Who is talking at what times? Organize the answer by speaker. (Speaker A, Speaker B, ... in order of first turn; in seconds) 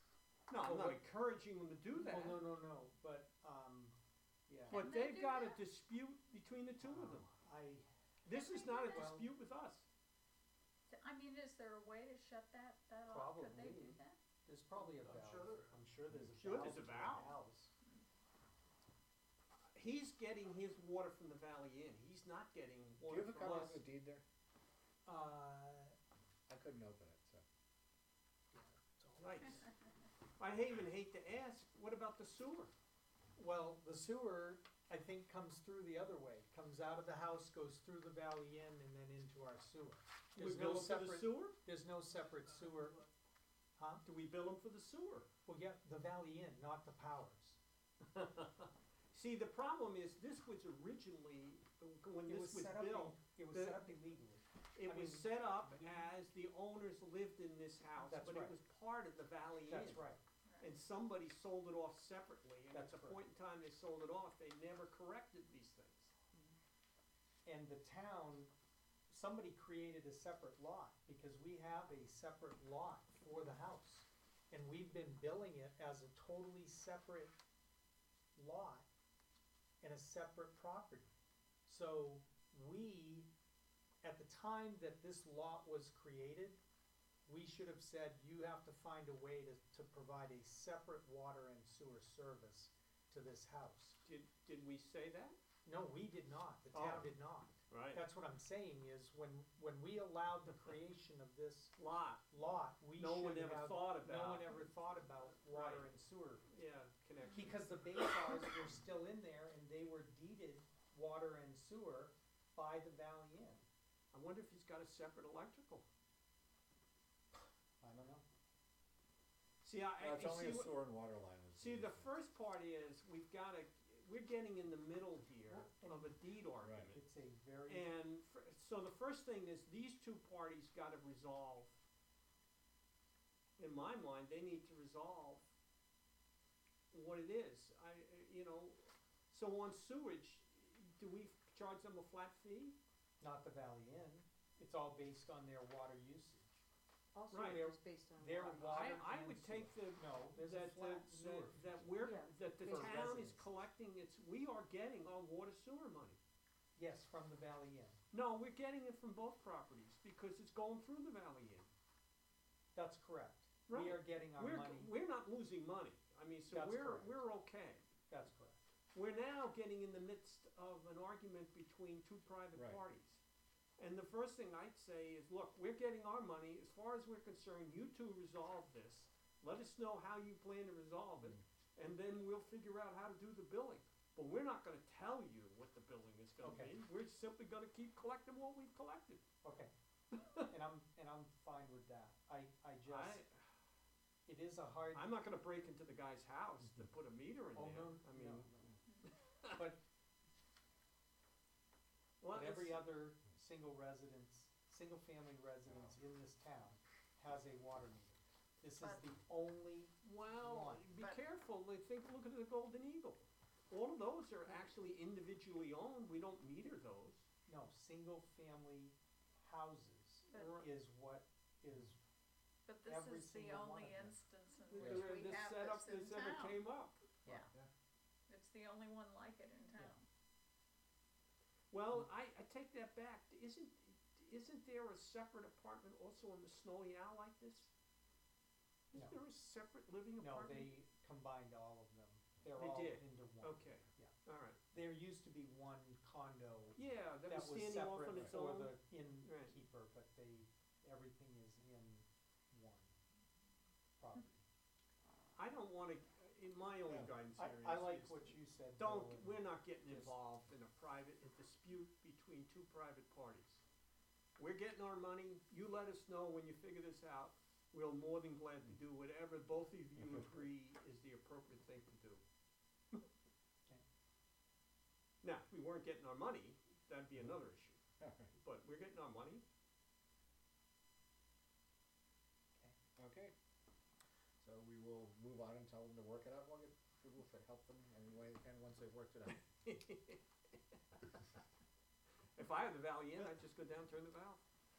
Speaker A: 0.5-2.4, 4.7-7.3, 8.2-9.8, 16.4-17.3, 19.7-23.8, 29.2-29.7, 30.4-32.7, 40.4-41.5, 44.0-45.3, 48.0-53.9, 54.8-60.1, 60.6-66.1, 94.0-95.4, 96.7-97.1, 97.7-98.0, 101.8-102.2, 103.0-104.6, 105.4-108.1, 114.1-115.8, 119.6-120.8, 121.5-127.0, 127.7-131.8, 133.6-135.5, 136.9-138.8, 139.3-142.8, 147.3-147.7, 148.5-156.2, 158.1-161.7, 163.7-167.8, 168.9-173.2, 173.8-189.2, 190.1-190.5, 192.9-193.5, 194.9-198.7, 202.2-202.9, 210.0-217.2, 220.3-220.7, 224.7-227.1, 231.7-237.7, 238.9-240.7, 242.6-244.6, 246.8-249.6, 255.4-263.6, 264.4-272.2, 275.2-277.8, 278.3-279.4, 289.6-290.2, 292.4-294.4
Speaker B: 0.6-1.0, 1.9-4.0, 4.5-4.9, 6.8-7.9, 8.9-9.3, 13.1-17.7, 25.1-25.9, 28.5-29.7, 33.4-43.0, 43.8-44.0, 45.5-47.6, 52.2-55.3, 58.0-58.5, 59.7-60.2, 62.7-63.2, 67.5-68.5, 69.1-77.4, 78.4-78.9, 79.8-81.1, 81.7-83.3, 84.0-86.6, 87.3-94.0, 95.7-101.8, 102.3-106.5, 107.3-113.7, 117.8-118.2, 125.5-126.2, 126.9-127.9, 143.2-146.6, 147.3-151.9, 152.6-153.5, 156.8-158.0, 162.8-164.9, 166.5-167.2, 168.1-168.6, 186.4-186.8, 189.4-189.7, 190.5-193.2, 194.3-195.2, 197.6-198.7, 199.5-199.8, 202.3-210.9, 217.5-222.0, 222.9-224.2, 240.2-244.1, 244.7-252.9, 254.0-254.4, 257.4-260.2
Speaker C: 4.7-5.6, 8.3-9.1, 10.9-14.2, 60.4-60.7, 220.3-220.6, 222.7-226.6, 228.3-230.1
Speaker D: 16.5-17.1, 23.0-24.2, 26.5-27.4, 120.0-122.1, 126.6-126.9, 172.6-172.8, 224.8-225.2, 227.3-227.7, 256.9-257.1, 278.0-278.3, 283.0-283.3, 284.4-289.5
Speaker E: 147.2-148.9, 152.0-153.0